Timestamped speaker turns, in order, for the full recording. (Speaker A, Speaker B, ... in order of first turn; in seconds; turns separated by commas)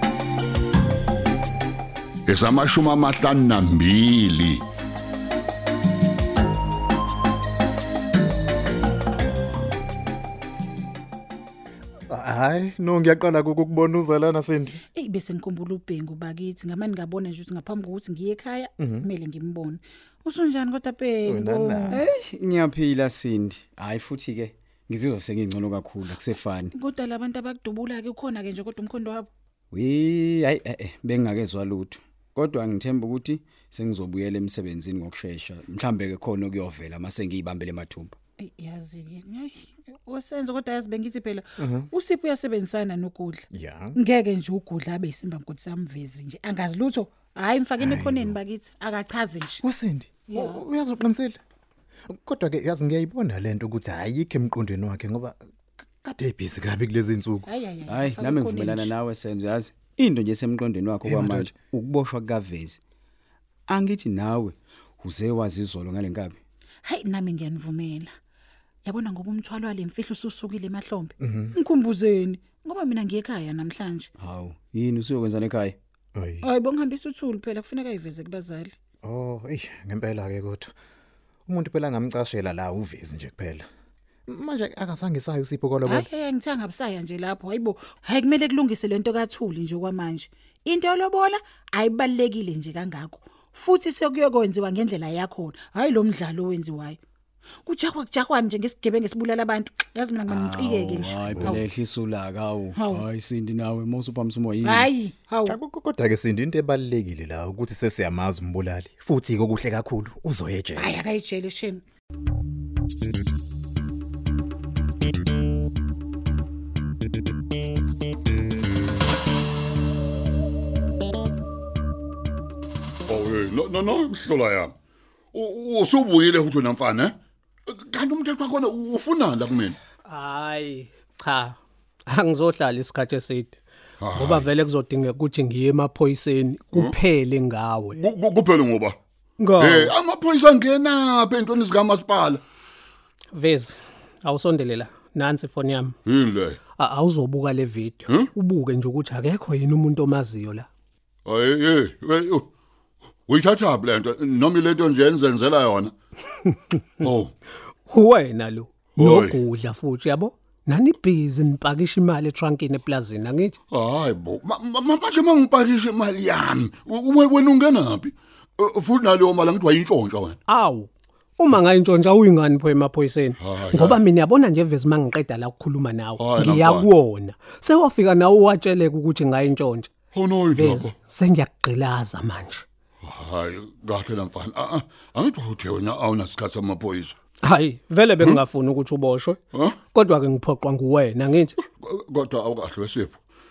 Speaker A: 2.3-4.6, Speaker B: 12.1-14.8, Speaker C: 14.9-22.1, Speaker B: 18.8-19.1, Speaker B: 21.2-22.0, Speaker D: 21.9-26.7, Speaker C: 26.8-29.3, Speaker D: 29.7-38.1, Speaker C: 38.4-49.6, Speaker B: 41.6-41.9, Speaker B: 43.5-44.0, Speaker B: 47.8-48.4, Speaker B: 49.6-51.4, Speaker C: 50.3-50.6, Speaker B: 52.1-55.4, Speaker B: 56.0-57.5, Speaker C: 57.5-58.9, Speaker D: 57.9-62.8, Speaker B: 61.0-61.9, Speaker D: 63.7-66.4, Speaker C: 66.8-68.1, Speaker C: 68.8-74.1, Speaker B: 71.2-71.6, Speaker D: 74.2-75.8, Speaker B: 76.1-76.5, Speaker C: 76.4-78.7, Speaker B: 79.0-80.7, Speaker B: 81.5-83.7, Speaker B: 84.3-86.1, Speaker C: 85.8-97.0, Speaker C: 97.6-101.6, Speaker D: 100.3-104.9, Speaker B: 101.3-101.6, Speaker C: 102.8-103.0, Speaker C: 104.6-105.5, Speaker B: 105.4-110.9, Speaker C: 110.8-111.8, Speaker A: 123.0-124.7, Speaker A: 125.3-129.8, Speaker E: 130.0-133.6, Speaker A: 134.0-134.5, Speaker E: 134.1-138.0, Speaker A: 137.9-139.0, Speaker E: 139.4-139.9, Speaker A: 139.6-142.4, Speaker E: 143.3-145.9, Speaker A: 146.1-146.6, Speaker E: 146.7-150.7, Speaker A: 151.2-152.5, Speaker A: 153.3-155.9, Speaker A: 157.0-157.3, Speaker E: 157.9-163.6, Speaker A: 158.9-159.4, Speaker A: 163.7-170.4, Speaker E: 170.5-179.9, Speaker A: 173.4-174.0, Speaker A: 176.2-176.9, Speaker A: 180.1-180.9, Speaker E: 180.5-182.6, Speaker A: 183.0-187.2, Speaker E: 187.4-189.4, Speaker E: 189.9-191.6, Speaker A: 191.6-193.2